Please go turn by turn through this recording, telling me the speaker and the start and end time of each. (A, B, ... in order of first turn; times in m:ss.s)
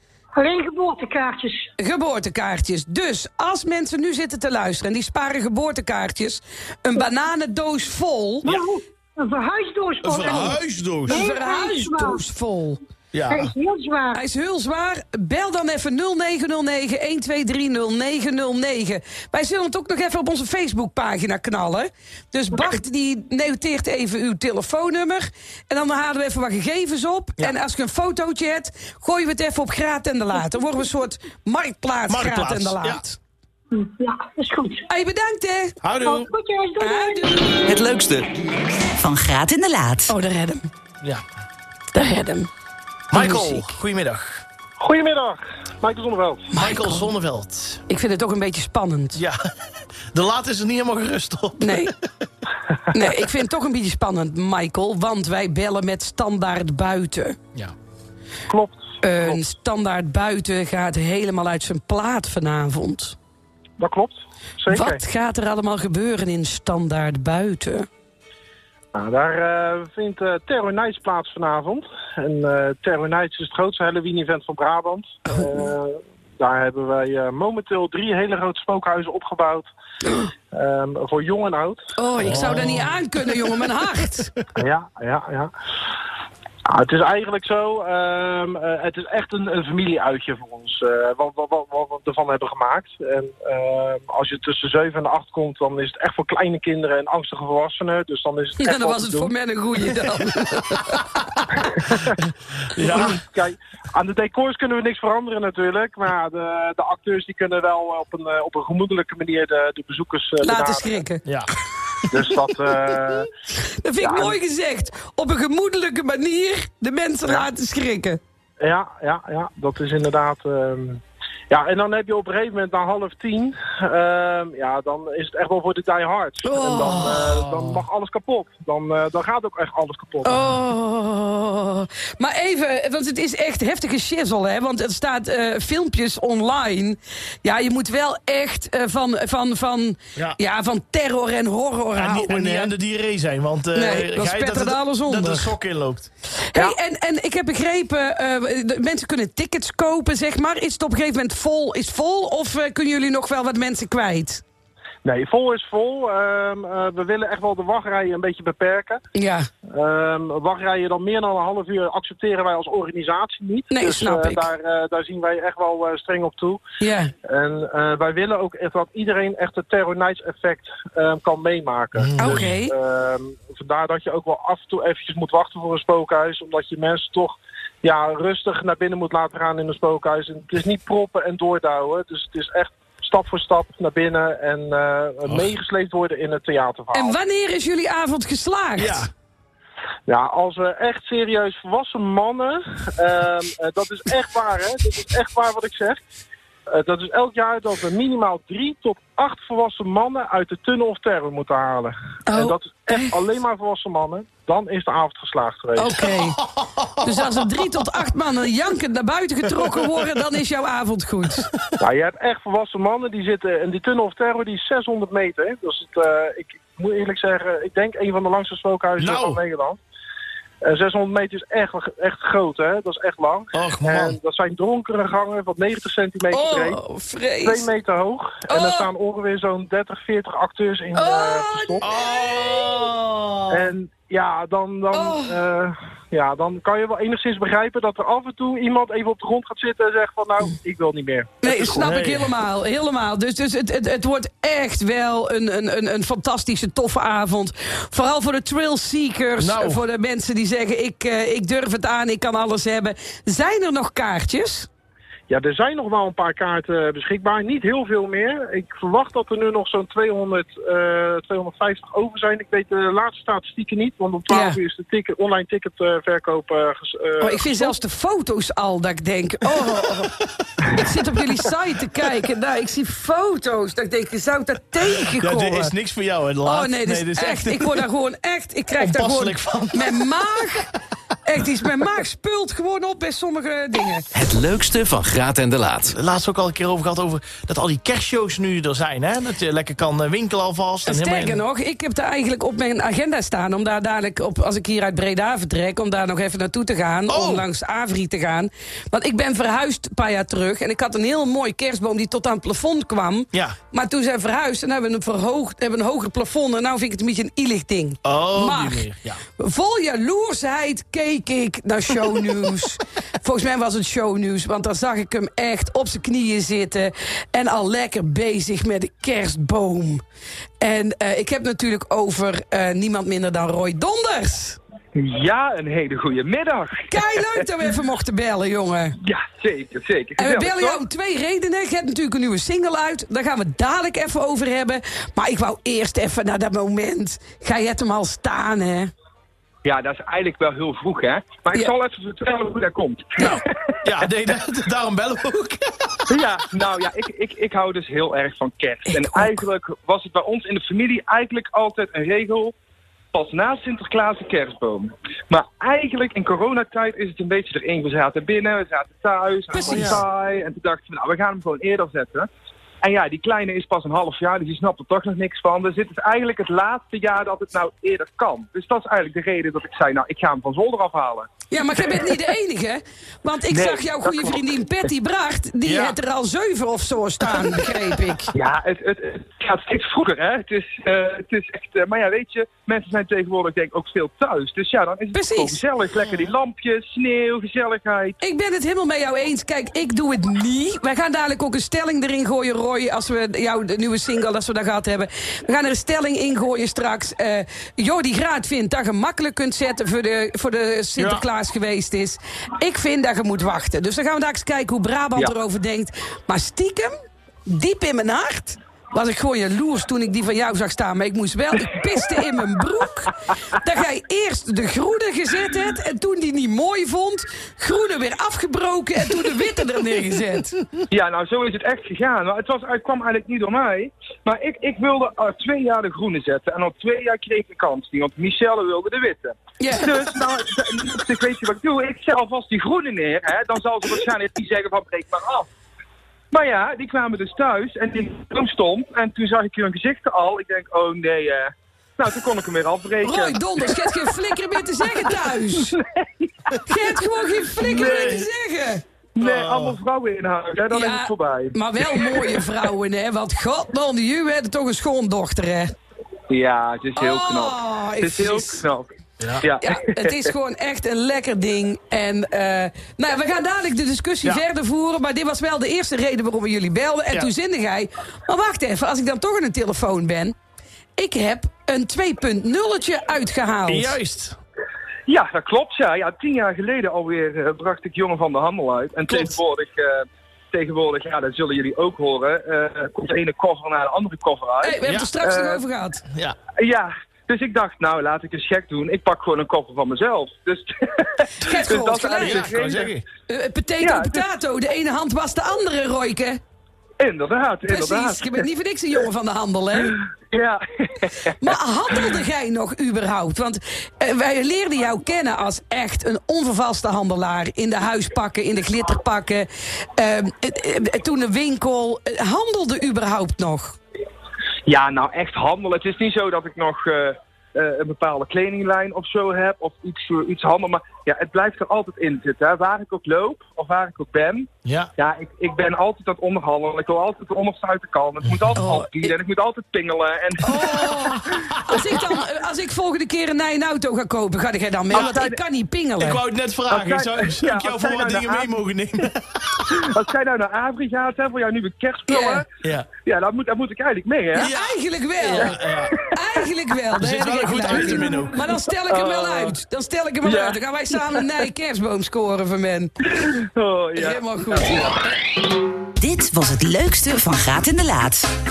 0:00.4-0:01.7 A
0:01.8-0:08.4 B
0:08.4-0:12.2 A
0:10.0-0:11.2 C
0:11.1-0:12.8 B
0:13.1-0:13.5 C
0:13.3-0:14.2 A
0:14.1-0:33.2 B
0:32.1-0:33.0 C
0:33.7-0:34.8 A
0:34.9-0:35.8 B
0:35.8-0:36.3 C
0:36.0-0:37.4 A
0:36.8-0:37.9 B
0:37.6-0:38.3 D
0:39.0-0:40.1 E
0:40.1-0:40.7 B
0:41.9-0:42.5 B
0:43.1-0:44.4 C
0:43.1-0:43.8 B
0:44.8-0:46.5 F
0:46.5-0:47.1 B
0:46.6-0:47.8 C
0:47.9-0:49.2 B
0:49.1-0:49.4 C
0:50.1-0:51.9 C
0:51.6-0:51.9 B
0:52.9-0:57.4 B
0:58.5-0:59.4 F
0:59.0-1:03.2 B
1:03.8-1:05.0 F
1:04.7-1:07.9 B
1:08.9-1:19.7 F
1:20.5-1:22.8 F
1:22.0-1:24.3 B
1:22.2-1:22.9 C
1:24.6-1:25.5 F
1:26.7-1:39.3 F
1:38.6-1:41.1 B
1:42.8-1:51.0 F
1:42.8-1:43.1 C
1:50.4-1:51.2 B
1:52.1-1:53.3 F
1:53.8-1:58.2 B
1:54.0-1:54.4 F
1:58.6-2:10.5 F
2:06.4-2:07.5 B
2:10.2-2:22.7 B
2:22.0-2:26.1 C
2:23.7-2:25.5 B
2:26.5-2:34.4 B
2:35.0-2:39.0 F
2:39.1-2:39.5 B
2:39.7-2:46.6 F
2:43.7-2:44.5 B
2:46.8-2:47.1 B
2:47.2-3:07.2 F
2:52.0-2:52.5 C
2:52.2-2:52.7 B
3:06.9-3:09.1 B
3:08.8-3:09.1 C
3:10.1-3:16.0 F
3:16.7-3:26.0 F
3:22.3-3:23.1 B
3:25.8-3:26.4 B
3:27.0-3:31.5 B
3:31.8-3:39.8 F
3:39.0-3:39.4 C
3:40.6-3:46.8 F
3:43.5-3:44.2 C
3:46.3-3:47.7 B
3:47.4-3:51.9 F
3:48.5-3:48.9 B
3:50.9-3:52.9 B
3:51.8-3:53.7 C
3:53.5-4:01.6 F
3:54.9-3:55.4 B
4:01.4-4:14.7 B
4:01.5-4:02.3 C
4:09.4-4:09.8 C
4:15.3-4:27.8 F
4:24.3-4:24.6 B
4:27.2-4:30.1 B
4:30.8-4:35.7 B
4:35.2-4:37.8 C
4:36.4-4:40.7 B
4:38.8-4:40.0 C
4:41.2-4:44.0 B
4:44.1-4:46.0 D
4:45.9-4:51.4 C
4:50.9-5:08.9 B
4:57.1-4:57.5 C
5:08.0-5:09.2 C
5:09.4-5:20.0 B
5:20.6-5:24.6 B
5:25.0-5:27.4 G
5:26.9-5:29.0 B
5:29.0-5:30.8 G
5:30.2-5:38.9 B
5:39.6-5:43.5 G
5:43.2-5:46.0 C
5:46.1-5:52.5 G
5:48.9-5:49.4 B
5:53.1-6:02.3 G
5:59.5-6:00.0 B
5:59.6-6:00.0 F
6:02.8-6:11.3 G
6:11.5-6:18.3 B
6:13.5-6:14.5 G
6:15.6-6:16.0 C
6:18.3-6:28.2 G
6:25.1-6:25.6 B
6:28.2-6:46.9 B
6:41.0-6:41.2 C
6:47.5-7:00.6 B
7:00.9-7:15.5 G
7:09.6-7:09.9 B
7:16.3-7:23.9 G
7:23.0-7:25.8 B
7:25.6-7:25.8 G
7:26.7-7:28.8 B
7:27.6-7:28.2 G
7:27.7-7:28.3 C
7:29.2-7:32.5 G
7:29.2-7:29.8 C
7:30.7-7:35.7 B
7:36.3-7:38.9 G
7:37.0-7:38.6 B
7:39.2-7:39.5 C
7:39.4-7:40.3 G
7:39.6-7:50.4 B
7:51.0-7:54.0 B
7:53.7-7:54.4 C
7:55.1-8:05.6 G
7:59.1-7:59.4 B
8:04.6-8:06.0 B
8:04.8-8:05.1 C
8:06.1-8:06.4 C
8:06.6-8:13.0 G
8:11.4-8:12.5 B
8:12.2-8:13.0 C
8:13.3-8:16.4 B
8:13.8-8:14.2 G
8:17.0-8:18.4 G
8:17.7-8:20.0 B
8:19.8-8:21.4 G
8:21.4-8:33.8 B
8:34.6-8:51.3 G
8:44.6-8:44.9 C
8:48.3-8:48.6 C
8:48.6-8:49.1 B
8:50.4-8:56.2 B
8:54.9-8:55.4 G
8:56.0-8:59.6 C
8:56.7-8:58.5 G
8:59.7-9:02.4 G
9:02.1-9:02.4 B
9:02.6-9:02.9 C
9:03.0-9:04.5 G
9:04.4-9:05.6 B
9:04.4-9:06.0 C
9:05.3-9:06.0 G
9:06.1-9:12.9 B
9:07.0-9:08.5 C
9:07.7-9:08.1 G
9:08.9-9:09.6 G
9:10.2-9:11.2 G
9:13.0-9:15.0 G
9:14.0-9:14.9 B
9:16.0-9:18.3 E